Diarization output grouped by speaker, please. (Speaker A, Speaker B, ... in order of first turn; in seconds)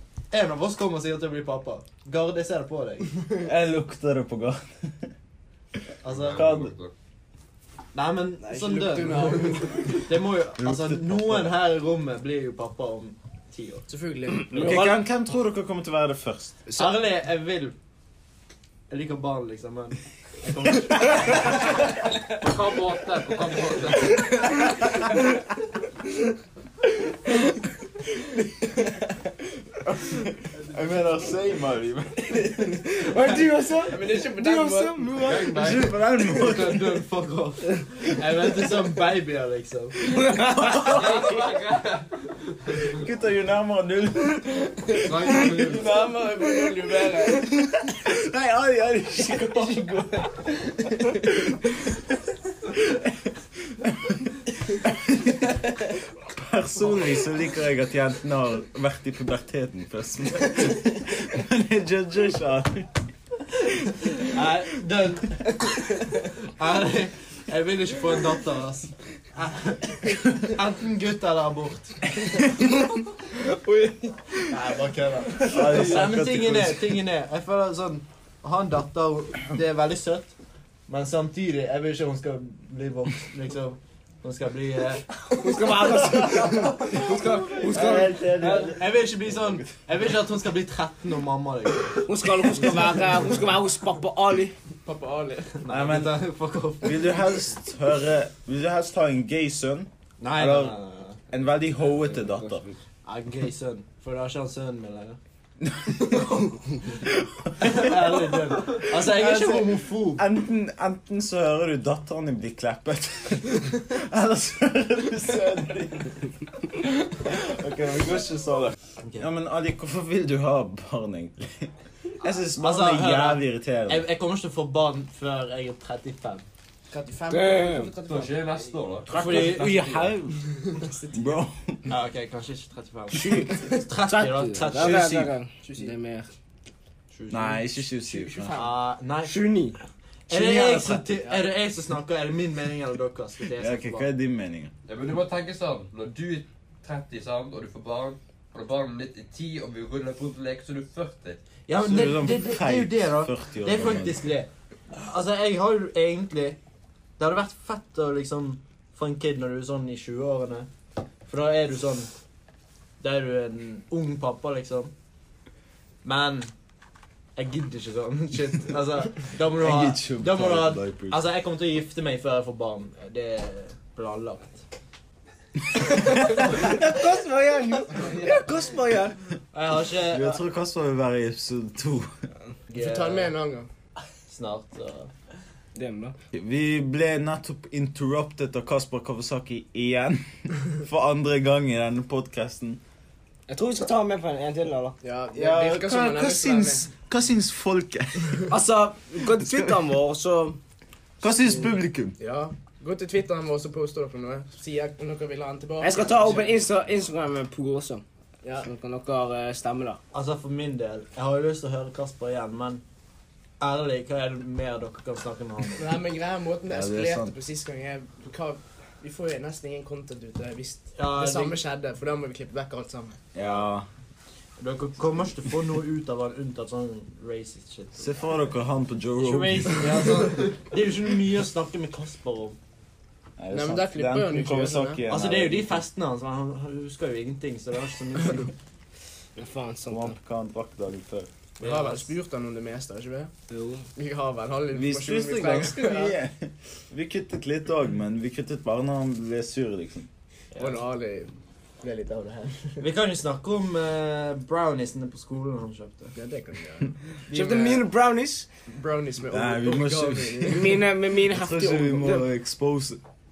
Speaker A: 0.3-3.1, 6.0-6.5, 7.9-13.9, 16.8-17.8, 18.9-21.8, 36.1-40.1, 45.1-45.8, 64.2-65.8, 66.4-72.1, 74.5-80.3, 80.9-85.1, 88.4-92.1, 95.6-97.3, 100.2-101.2, 103.0-105.2, 107.6-110.2, 122.6-126.5, 129.1-129.8, 131.9-135.3, 137.1-137.6, 138.5-139.4, 140.3-144.1, 151.7-156.6, 157.2-160.7, 161.3-162.1, 163.0-164.9, 166.0-166.5, 167.4-174.6, 179.5-180.4, 182.7-183.3, 184.3-185.1, 210.1-212.8, 213.6-215.9, 220.9-221.6, 224.6-228.1, 229.2-232.6, 235.1-238.5, 241.6-242.1, 250.5-250.8, 252.8-256.2
Speaker B: 3.4-5.1, 6.3-6.7, 10.6-11.5, 14.5-16.7, 28.3-33.3, 35.2-37.0, 40.1-41.5, 42.9-44.8, 47.4-50.5, 51.0-51.8, 52.8-53.2, 53.7-55.5, 56.2-63.0, 75.5-77.0, 85.9-89.7, 95.7-96.2, 96.8-100.8, 101.3-102.7, 105.6-106.2, 107.0-116.3, 116.8-124.0, 129.1-130.4, 131.1-131.9, 134.9-135.2, 137.3-138.6, 140.3-141.2, 143.6-144.7, 151.8-154.3, 169.6-171.2, 180.1-182.1, 186.3-192.8, 195.3-198.6, 199.1-199.9, 201.2-202.2, 216.7-217.3, 223.3-223.9, 228.0-229.9, 233.4-235.8, 239.9-241.3, 244.7-250.1, 259.3-263.0
Speaker C: 6.1-6.9, 22.2-24.6, 35.2-35.9, 40.7-43.0, 128.1-130.1, 144.9-151.4
Speaker D: 8.4-10.1, 13.9-14.9, 33.9-35.2, 45.4-47.5, 94.8-95.6, 126.9-128.6, 130.6-131.4, 135.6-135.9, 138.1-138.8, 182.7-183.7, 195.0-196.9, 202.2-206.6, 208.4-208.7, 215.8-223.2, 233.5-235.0, 241.6-243.3, 244.0-246.2, 250.6-252.8, 256.1-257.9, 258.7-260.8
Speaker E: 14.6-14.8, 32.7-35.8, 40.1-41.0, 85.3-88.7, 92.1-94.6, 127.3-127.9, 133.1-136.3, 139.2-139.8, 176.0-179.2, 185.8-186.2, 193.5-195.0, 198.5-200.6, 205.8-208.0, 208.6-210.0, 239.4-240.2, 243.5-243.9, 257.3-258.5, 260.5-262.3